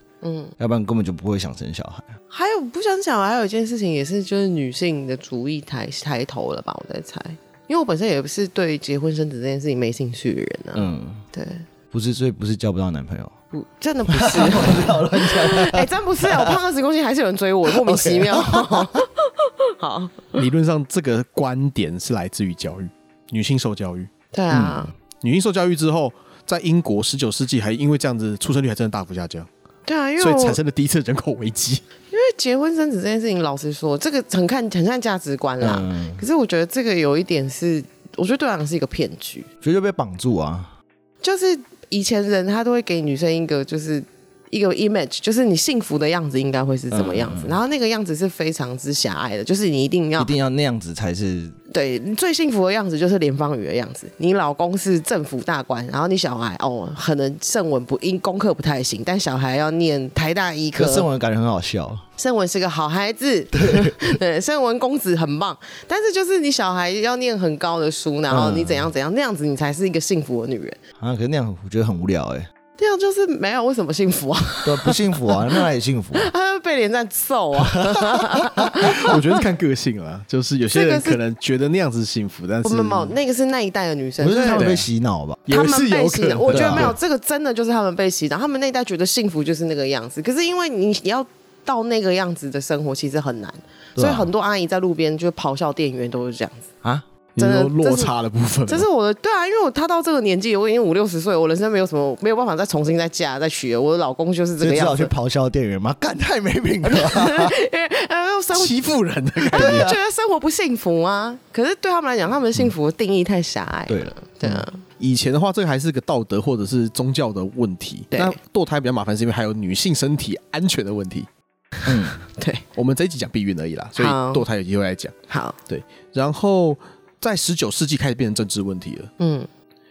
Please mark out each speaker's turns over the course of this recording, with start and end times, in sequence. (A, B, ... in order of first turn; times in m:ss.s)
0:00.2-0:00.5 A
0:00.6-0:02.1 B
0:02.3-0:11.6 A
0:10.7-0:11.2 B
0:11.9-0:13.4 B
0:13.5-0:20.4 A
0:14.1-0:16.6 B
0:17.6-0:19.0 B
0:20.4-0:24.1 C
0:24.3-0:24.9 A
0:24.5-0:24.9 B
0:25.2-0:29.5 C
0:29.9-0:30.6 A
0:30.2-0:31.8 C
0:32.1-0:39.5 A
0:35.6-0:36.2 B
0:39.6-0:40.7 B
0:41.2-0:50.3 A
0:46.9-0:47.6 B
0:50.2-0:51.6 B
0:51.7-1:01.1 A
1:00.8-1:02.0 B
1:02.2-1:10.8 A
1:03.5-1:04.0 B
1:08.3-1:08.9 B
1:11.0-1:12.5 B
1:12.8-1:15.6 A
1:14.6-1:16.3 B
1:16.1-1:19.4 A
1:18.0-1:18.8 B
1:18.9-1:23.1 C
1:20.7-1:21.2 A
1:22.6-1:24.7 A
1:24.2-1:25.4 B
1:24.5-1:24.9 C
1:25.5-1:27.0 C
1:25.5-1:36.7 A
1:26.5-1:27.0 B
1:34.0-1:34.3 B
1:37.4-1:38.9 C
1:37.4-1:38.1 A
1:38.7-1:45.1 A
1:44.6-1:47.6 B
1:46.8-1:48.8 A
1:48.5-1:49.9 C
1:49.5-1:54.8 A
1:49.5-1:50.0 B
1:53.9-1:54.6 B
1:55.0-2:01.3 C
1:58.1-1:58.4 A
2:01.9-2:02.2 B
2:01.9-2:02.6 A
2:02.8-2:05.1 C
2:04.0-2:04.4 A
2:05.3-2:05.6 A
2:05.7-2:09.1 C
2:09.2-2:09.5 A